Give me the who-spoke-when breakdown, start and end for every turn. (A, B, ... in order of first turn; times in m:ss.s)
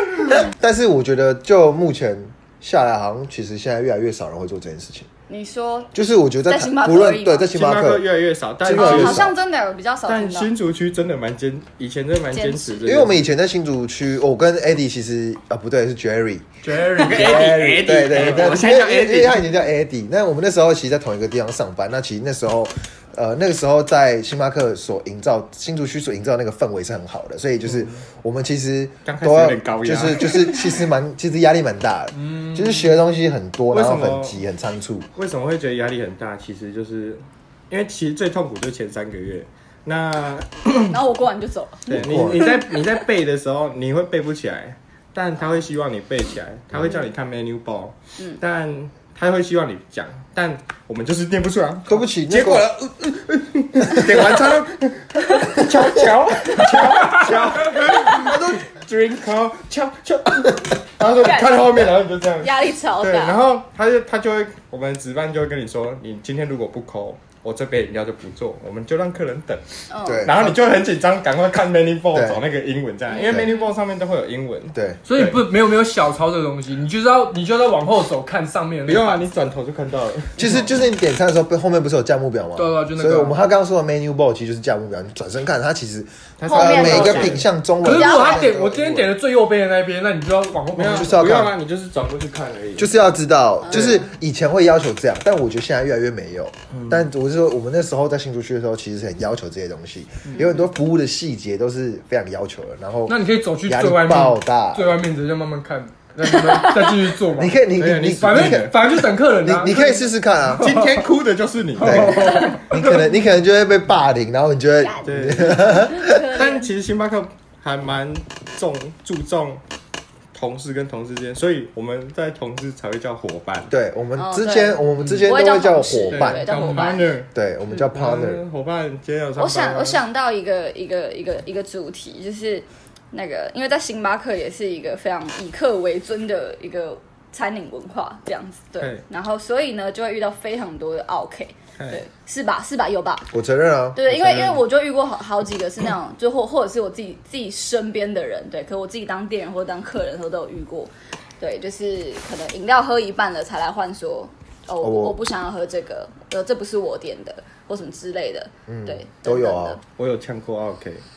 0:00.2-0:05.1 A
0:05.3-0:05.9 B
0:05.9-0:08.1 A
0:06.5-0:07.5 B
0:07.5-0:09.3 C
0:08.6-0:09.3 A
0:08.7-0:10.5 B
0:10.1-0:13.3 C
0:12.3-0:12.9 B
0:12.8-0:16.4 A
0:16.6-0:17.6 D
0:16.9-0:19.5 C
0:17.0-0:35.0 A
0:18.2-0:18.5 D
0:27.6-0:27.9 C
0:29.0-0:30.6 C
0:32.3-0:32.9 D
0:33.7-0:34.4 C
0:35.2-0:41.0 C
0:40.9-0:42.5 B
0:41.9-1:09.6 C
0:41.9-0:42.6 A
0:51.9-0:52.7 A
0:55.9-0:56.4 D
0:56.9-0:57.3 D
0:58.2-0:58.6 A
1:01.2-1:01.7 B
1:02.4-1:03.4 B
1:09.9-1:10.3 B
1:10.0-1:10.6 A
1:10.2-1:15.4 C
1:12.1-1:12.4 A
1:13.1-1:13.7 B
1:14.7-1:15.0 A
1:15.1-1:19.2 D
1:18.8-1:20.5 C
1:20.4-1:29.1 A
1:22.6-1:23.4 D
1:26.4-1:27.4 C
1:26.4-1:28.4 B
1:27.8-1:31.3 D
1:30.7-1:32.9 C
1:30.9-1:31.5 A
1:32.8-1:45.0 A
1:33.6-1:34.1 B
1:33.7-1:34.0 C
1:36.7-1:37.0 C
1:43.1-1:51.0 D
1:47.3-1:50.7 A
1:47.8-1:48.8 C
1:50.6-1:52.6 C
1:51.8-1:53.0 D
1:51.8-1:56.3 A
1:54.8-1:55.1 B
1:55.0-1:59.6 C
1:55.8-1:56.7 B
2:00.3-2:03.7 C
2:03.7-2:06.5 A
2:04.2-2:07.1 B
2:05.0-2:05.3 C
2:06.1-2:10.0 C
2:06.7-2:06.9 D
2:07.3-2:08.4 A
2:09.4-2:23.3 B
2:23.3-2:24.6 A
2:23.9-2:39.8 B
2:34.8-2:35.2 A
2:38.7-2:39.8 A
2:40.0-2:41.0 C